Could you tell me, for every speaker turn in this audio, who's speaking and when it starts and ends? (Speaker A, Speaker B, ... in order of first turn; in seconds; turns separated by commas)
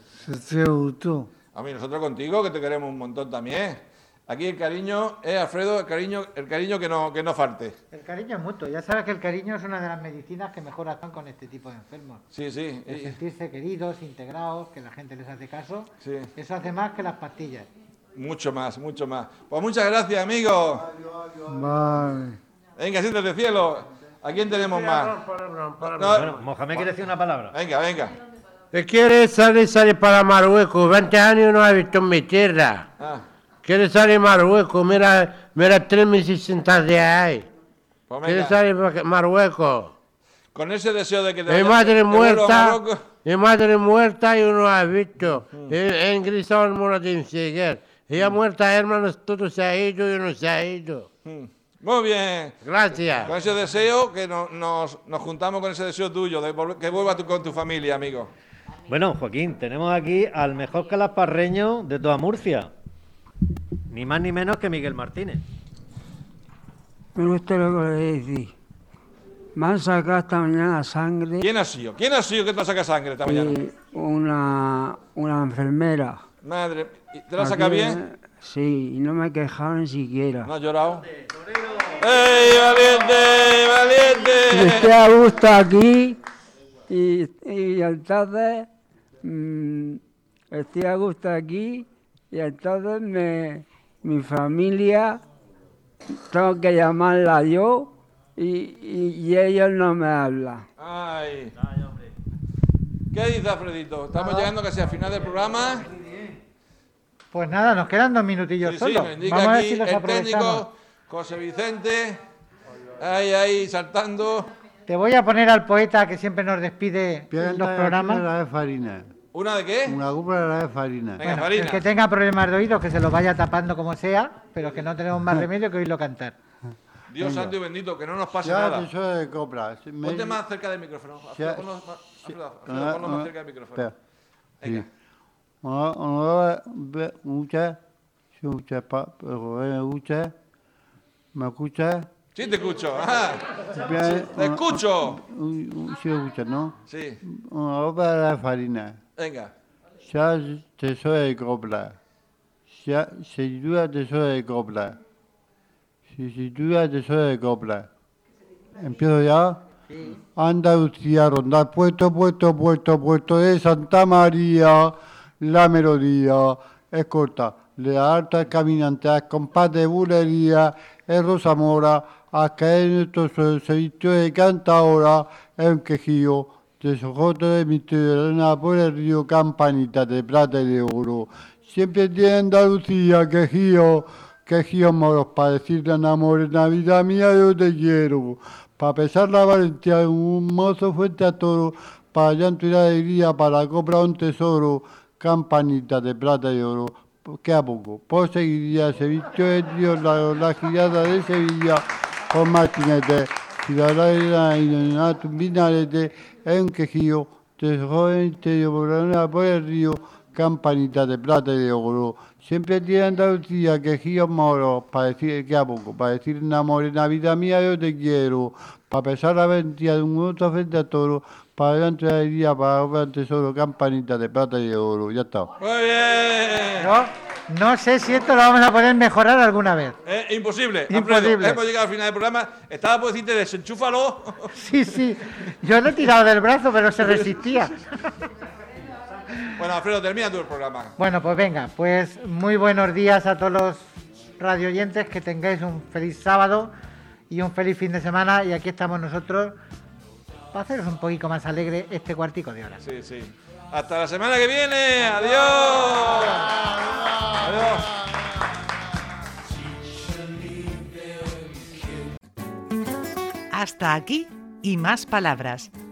Speaker A: 0.2-1.3, Speaker B: 1.5-7.8, Speaker C: 7.9-12.2, Speaker B: 12.3-13.2, Speaker C: 12.9-17.7, Speaker B: 16.0-16.3, Speaker B: 18.1-20.9, Speaker D: 21.2-21.9, Speaker A: 21.5-22.4, Speaker B: 22.8-25.1, Speaker E: 24.8-26.2, Speaker B: 25.8-26.9, Speaker A: 26.1-27.5, Speaker B: 27.5-28.2, Speaker E: 28.7-32.9, Speaker E: 33.6-37.5, Speaker B: 38.1-38.6, Speaker E: 38.2-39.9, Speaker B: 40.5-43.0, Speaker E: 41.5-51.1, Speaker B: 51.2-52.6, Speaker E: 52.6-53.3, Speaker B: 53.2-58.3, Speaker A: 58.9-62.7, Speaker A: 63.9-65.4, Speaker F: 67.2-68.5, Speaker F: 69.5-71.4, Speaker B: 71.4-73.6, Speaker F: 73.3-76.2, Speaker B: 76.4-78.0, Speaker F: 77.4-77.8, Speaker F: 78.4-80.5, Speaker B: 80.4-81.0, Speaker B: 82.0-84.9, Speaker F: 84.7-86.2, Speaker F: 86.9-88.7, Speaker F: 89.2-90.0, Speaker F: 90.5-95.2, Speaker F: 96.3-100.6, Speaker B: 100.8-101.5, Speaker B: 103.1-105.9, Speaker C: 107.3-110.7, Speaker B: 108.6-112.2, Speaker B: 113.0-114.5, Speaker C: 114.9-118.2, Speaker D: 117.3-119.1, Speaker B: 119.3-120.0, Speaker D: 119.8-121.3, Speaker B: 121.2-121.8, Speaker C: 121.2-126.3, Speaker B: 127.1-128.9, Speaker D: 127.2-127.5, Speaker D: 128.4-130.4, Speaker B: 130.0-133.9, Speaker D: 131.3-131.7, Speaker D: 132.7-133.9, Speaker B: 134.6-134.8, Speaker D: 135.6-137.8, Speaker D: 138.4-140.3, Speaker D: 141.3-142.1, Speaker B: 142.3-143.4, Speaker D: 143.7-149.0, Speaker B: 144.1-145.2, Speaker B: 146.9-147.2, Speaker B: 149.2-149.5, Speaker D: 150.0-151.9, Speaker D: 152.7-155.0, Speaker D: 156.1-157.9, Speaker D: 158.8-159.6, Speaker D: 160.3-225.5, Speaker B: 225.6-226.9, Speaker C: 226.8-229.9, Speaker B: 230.0-234.5, Speaker C: 230.9-231.6, Speaker C: 234.5-237.9, Speaker B: 239.5-240.9, Speaker C: 241.0-243.9, Speaker C: 244.4-246.7, Speaker C: 247.3-249.6, Speaker C: 250.5-252.8, Speaker B: 252.8-256.6, Speaker B: 257.4-257.9, Speaker G: 263.5-265.7